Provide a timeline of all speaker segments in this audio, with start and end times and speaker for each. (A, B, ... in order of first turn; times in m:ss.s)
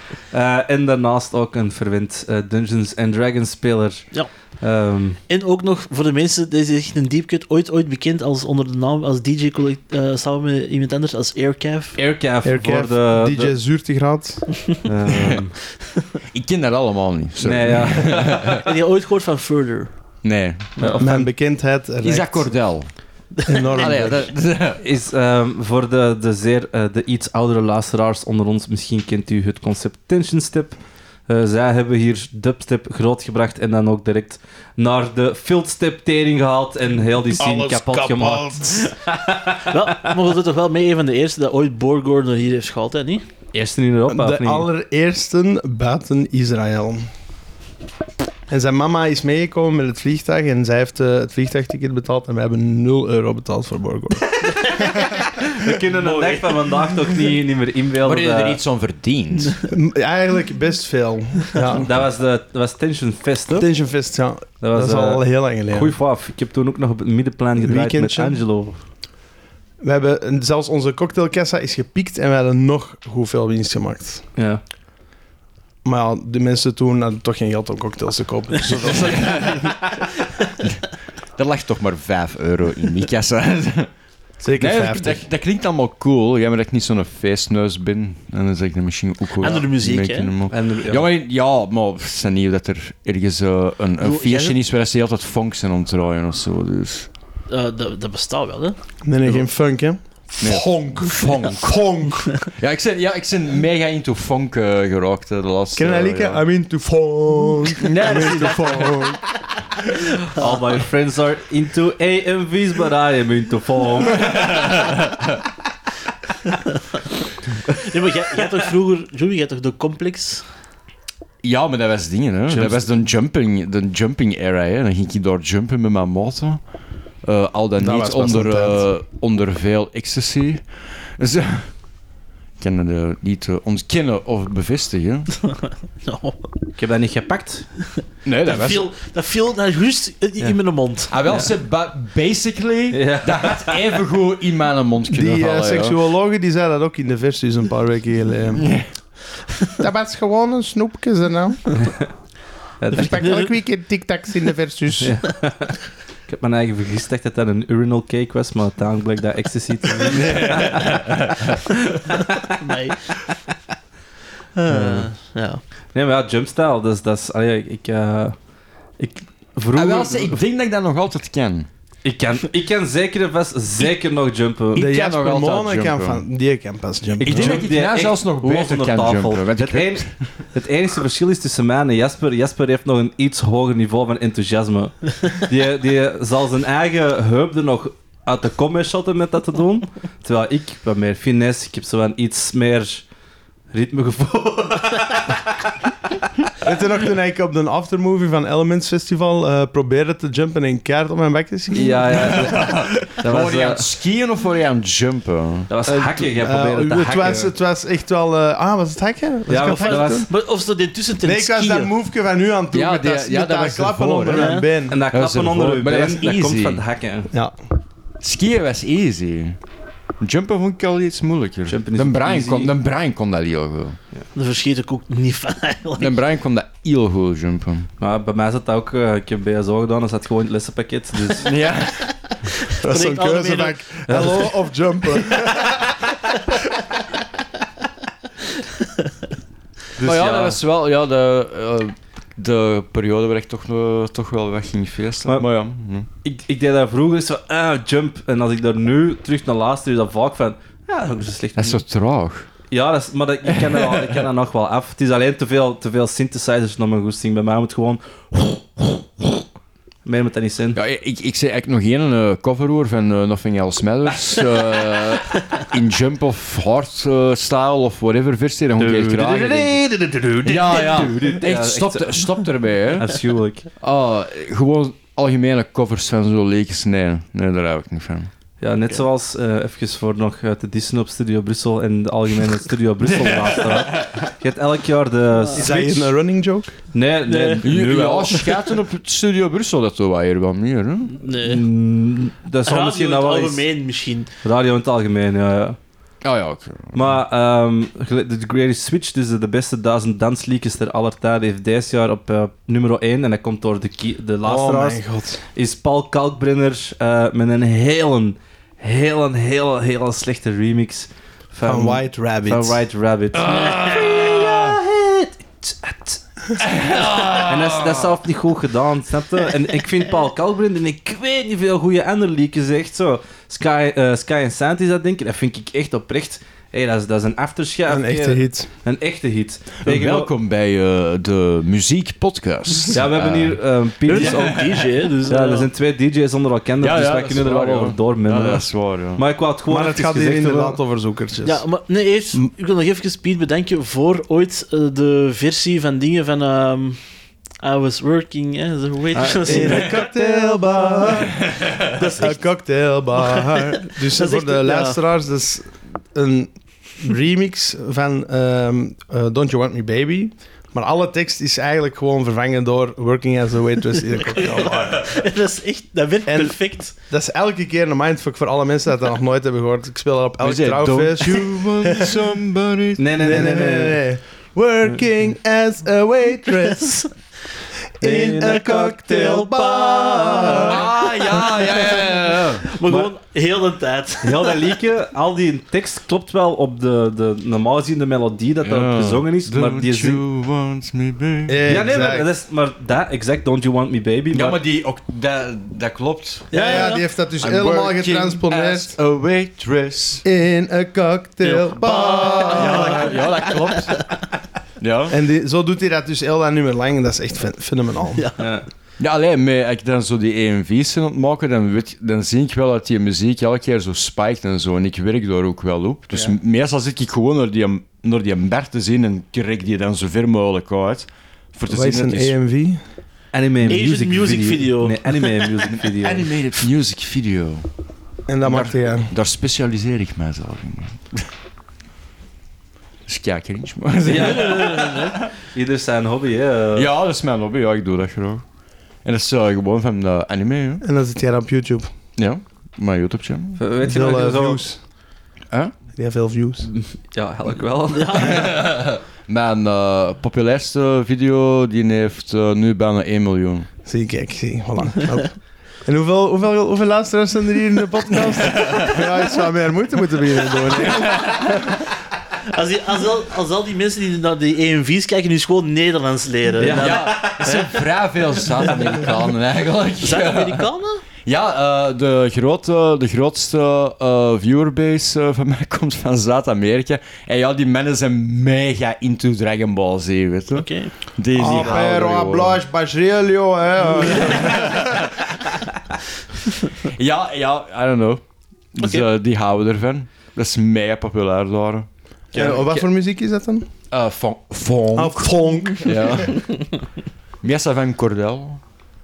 0:00.3-0:05.2 A
0:05.3-0:12.0 B
0:12.0-0:13.5 A
0:12.4-0:14.6 C
0:14.8-0:15.5 A
0:16.3-0:18.6 D
0:17.4-0:18.6 A
0:18.6-0:19.9 B
0:20.2-0:20.7 D
0:20.8-0:21.3 A
0:21.0-0:22.5 C
0:22.0-0:22.9 D
0:23.4-0:23.9 B
0:23.5-0:24.2 C
0:23.6-0:24.8 D
0:24.8-0:30.8 A
0:31.3-0:40.1 A
0:37.4-0:38.9 C
0:39.6-0:43.2 B
0:43.5-0:44.7 A
0:44.1-0:47.1 C
0:48.5-0:54.4 C
0:54.4-0:54.9 B
0:55.4-0:58.6 A
0:55.9-0:57.2 B
0:58.0-0:59.6 D
0:59.7-1:01.9 C
1:01.8-1:03.7 A
1:03.5-1:05.9 C
1:04.6-1:08.8 A
1:07.6-1:08.4 C
1:09.8-1:14.2 C
1:14.4-1:14.6 A
1:15.8-1:19.6 C
1:18.6-1:19.8 D
1:21.4-1:23.9 D
1:24.4-1:25.2 C
1:24.6-1:37.1 D
1:29.4-1:30.3 B
1:30.5-1:31.1 A
1:34.0-1:34.5 B
1:37.5-1:38.8 B
1:39.0-1:42.4 C
1:40.4-1:41.8 D
1:42.5-1:46.4 D
1:45.7-1:49.4 C
1:47.8-1:48.9 D
1:50.3-1:54.2 A
1:54.0-1:55.4 D
1:57.8-2:00.4 B
2:01.4-2:06.6 D
2:07.2-2:11.7 D
2:07.8-2:08.8 C
2:12.6-2:15.3 D
2:15.5-2:16.5 B
2:16.8-2:17.6 A
2:18.2-2:18.9 D
2:18.4-2:21.1 B
2:21.1-2:26.0 D
2:22.9-2:23.8 A
2:25.1-2:28.8 C
2:28.5-2:28.9 D
2:29.8-2:31.8 C
2:31.8-2:32.1 A
2:32.8-2:33.3 A
2:32.9-2:35.2 C
2:32.9-2:33.5 B
2:35.0-2:41.0 A
2:40.1-2:42.0 D
2:42.1-2:42.4 A
2:42.5-2:43.3 B
2:44.6-2:45.6 B
2:44.7-2:45.1 A
2:45.9-2:48.4 A
2:49.0-2:50.4 A
2:49.7-2:51.7 D
2:52.0-2:54.9 A
2:54.7-2:56.2 D
2:54.7-2:57.6 C
2:57.2-3:00.1 D
2:57.2-3:13.0 A
3:13.7-3:15.4 A
3:16.6-3:22.8 C
3:21.7-3:23.8 A
3:22.0-3:25.7 D
3:25.7-3:27.5 A
3:25.9-3:30.3 C
3:29.5-3:30.3 A
3:29.6-3:31.9 B
3:31.2-3:35.0 C
3:32.7-3:36.8 D
3:34.3-3:34.7 B
3:34.9-3:37.3 A
3:38.2-3:39.6 D
3:40.2-3:44.0 D
3:41.7-3:42.7 A
3:44.3-3:46.2 B
3:46.0-3:47.9 D
3:48.0-3:51.5 A
3:51.3-3:52.1 D
3:52.7-3:54.2 B
3:52.8-3:56.0 C
3:54.1-3:54.5 A
4:00.0-4:00.6 A
4:00.0-4:06.1 D
4:06.2-4:11.8 A
4:11.6-4:12.5 D
4:12.7-4:19.3 A
4:13.5-4:14.3 D
4:20.0-4:20.8 A
4:20.7-4:29.8 D
4:28.8-4:32.4 A
4:30.4-4:33.2 D
4:33.0-4:33.6 A
4:33.8-4:38.3 D
4:38.6-4:46.1 A
4:43.8-4:44.2 D
4:45.5-4:46.7 C
4:46.9-4:48.4 A
4:47.3-4:47.7 B
4:47.6-4:51.1 D
4:48.3-4:48.7 B
4:51.2-4:51.6 B
4:51.2-4:53.6 A
4:52.6-4:54.3 B
4:54.4-4:55.8 A
4:56.2-4:57.2 D
4:56.9-5:05.0 A
5:04.4-5:05.4 C
5:05.5-5:16.2 A
5:11.6-5:12.8 C
5:13.3-5:14.8 D
5:13.6-5:14.2 B
5:16.6-5:18.1 D
5:16.9-5:30.3 A
5:27.9-5:28.7 C
5:29.8-5:34.9 D
5:32.9-5:40.8 A
5:34.1-5:35.7 B
5:36.8-5:39.2 D
5:39.7-5:41.6 C
5:41.4-5:50.5 B
5:49.1-5:50.0 A
5:49.4-6:05.2 C
5:51.5-5:51.8 D
5:52.0-5:52.4 B
5:53.2-5:55.0 B
6:04.1-6:06.9 B
6:06.2-6:12.1 C
6:10.4-6:13.6 D
6:13.0-6:14.0 A
6:13.2-6:17.1 C
6:16.6-6:17.0 B
6:18.0-6:20.8 C
6:18.0-6:20.6 A
6:20.2-6:20.7 B
6:20.6-6:22.7 D
6:21.4-6:22.0 B
6:22.6-6:24.7 B
6:22.8-6:23.1 A
6:24.2-6:30.2 A
6:28.6-6:31.6 D
6:31.5-6:32.3 C
6:31.6-6:34.6 A
6:34.3-6:36.9 D
6:36.5-6:37.0 B
6:36.5-6:38.9 C
6:37.4-6:40.2 D
6:40.2-6:43.1 C
6:41.4-6:43.9 B
6:41.8-6:44.1 D
6:44.8-6:45.2 D
6:45.1-6:48.2 C
6:48.2-6:48.5 B
6:48.4-6:48.6 A
6:49.0-7:02.3 D
7:01.7-7:02.8 C
7:03.3-7:06.3 A
7:03.6-7:05.5 B
7:05.7-7:07.6 D
7:08.3-7:09.1 C
7:08.4-7:11.2 D
7:13.0-7:15.2 D
7:14.0-7:16.9 A
7:14.2-7:15.2 B
7:16.7-7:18.4 D
7:19.0-7:20.8 D
7:20.8-7:21.9 C
7:22.2-7:23.6 D
7:23.6-7:24.6 A
7:23.8-7:24.8 C
7:26.0-7:26.7 C
7:26.6-7:28.4 A
7:27.9-7:28.5 B
7:28.1-7:33.7 D
7:33.8-7:41.5 C
7:38.6-7:39.0 D
7:40.7-7:41.7 D
7:42.5-7:47.6 B
7:46.6-7:47.6 A
7:46.7-7:50.6 D
7:50.0-7:51.0 B
7:51.2-8:02.6 D
8:00.5-8:00.9 B
8:01.3-8:05.0 C
8:01.5-8:01.8 B
8:04.1-8:05.6 D
8:06.8-8:08.2 D
8:08.7-8:11.9 D
8:12.3-8:12.8 A
8:12.3-8:13.7 C
8:13.9-8:16.6 D
8:14.9-8:16.3 C
8:17.4-8:18.6 D